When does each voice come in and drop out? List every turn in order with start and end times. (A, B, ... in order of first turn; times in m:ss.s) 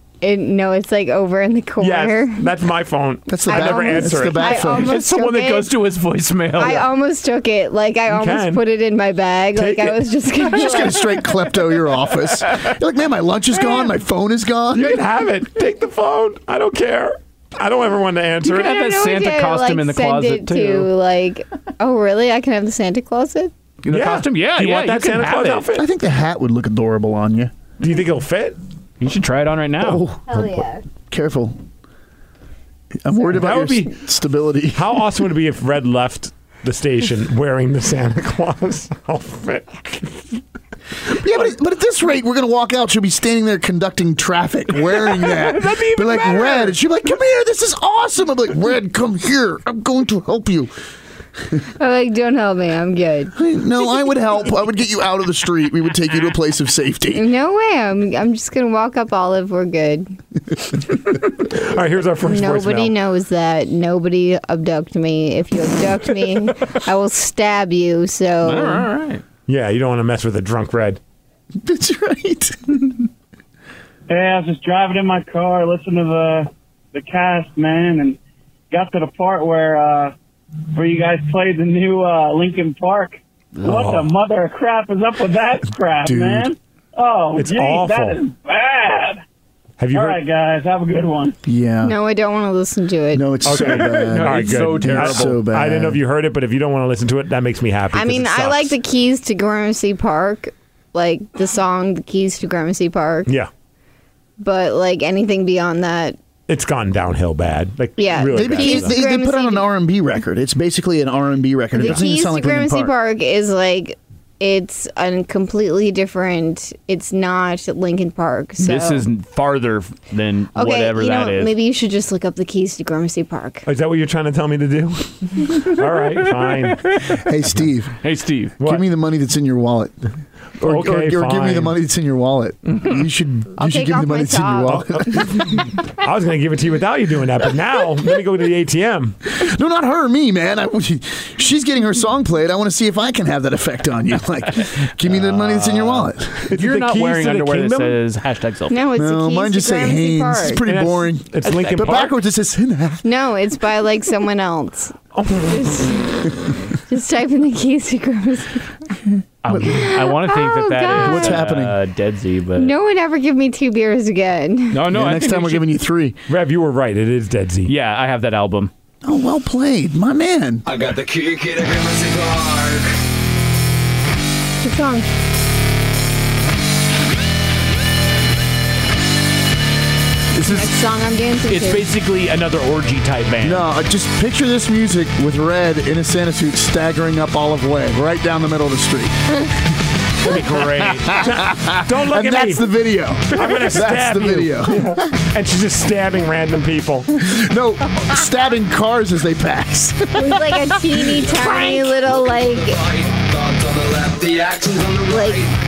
0:00.2-0:02.5 A
0:01.8-0:04.8 B
0:03.3-0:05.0 C
0:03.4-0:05.7 A
0:04.9-0:06.9 D
0:06.6-0:11.2 A
0:08.1-0:08.6 B
0:09.6-0:10.1 B
0:10.5-0:15.0 C
0:14.7-0:18.8 B
0:18.5-0:20.9 D
0:18.5-0:23.5 A
0:23.8-0:25.7 D
0:23.9-0:25.9 B
0:25.8-0:27.5 C
0:27.8-0:28.6 B
0:29.0-0:30.0 D
0:29.8-0:30.6 C
0:30.3-0:30.8 A
0:31.1-0:31.6 C
0:33.0-0:34.8 C
0:33.3-0:33.9 B
0:34.8-0:40.2 B
0:41.1-0:50.7 C
0:44.9-0:46.8 D
0:51.8-0:53.3 A
0:53.4-0:57.2 C
0:57.1-1:00.2 A
1:01.4-1:03.0 B
1:02.2-1:08.9 A
1:08.4-1:09.2 D
1:09.5-1:11.0 B
1:11.6-1:13.1 C
1:14.1-1:18.2 E
1:18.7-1:20.1 E
1:20.7-1:29.2 E
1:23.6-1:24.1 B
1:26.0-1:26.5 C
1:27.4-1:28.2 B
1:29.8-1:30.2 B
1:29.9-1:31.4 E
1:31.5-1:32.0 C
1:31.8-1:33.3 A
1:33.1-1:36.0 C
1:33.4-1:38.8 B
1:33.6-1:35.4 D
1:37.9-1:43.3 A
1:44.4-1:46.2 A
1:46.5-1:48.9 B
1:48.0-1:49.7 A
1:48.3-1:52.9 C
1:51.8-1:59.0 A
1:58.6-2:01.5 D
2:00.6-2:03.6 A
2:03.7-2:06.8 B
2:07.2-2:08.0 C
2:08.0-2:08.6 D
2:08.6-2:10.0 C
2:10.6-2:15.4 C
2:10.6-2:11.8 B
2:13.6-2:15.2 A
2:14.7-2:19.2 B
2:19.4-2:26.5 C
2:25.0-2:28.8 D
2:26.5-2:28.0 B
2:28.7-2:30.6 A
2:29.0-2:33.0 C
2:30.6-2:32.2 B
2:33.0-2:35.0 A
2:35.2-2:35.6 B
2:35.5-2:36.2 A
2:36.9-2:38.7 A
2:39.0-2:39.8 C
2:39.4-2:42.7 D
2:39.7-2:41.4 A
2:41.0-2:41.8 C
2:42.6-2:44.8 A
2:44.7-2:45.8 D
2:44.9-2:46.2 C
2:46.3-2:47.7 B
2:47.7-2:48.7 D
2:49.0-2:50.6 C
2:50.7-2:52.9 F
2:54.6-2:55.1 A
3:00.4-3:00.7 D
3:00.4-3:01.9 A
3:01.5-3:03.6 D
3:03.4-3:09.5 C
3:10.2-3:11.2 D
3:10.3-3:15.0 C
3:11.2-3:12.7 B
3:13.3-3:17.1 B
3:17.3-3:21.2 C
3:20.1-3:22.8 A
3:22.7-3:25.4 F
3:25.1-3:25.5 A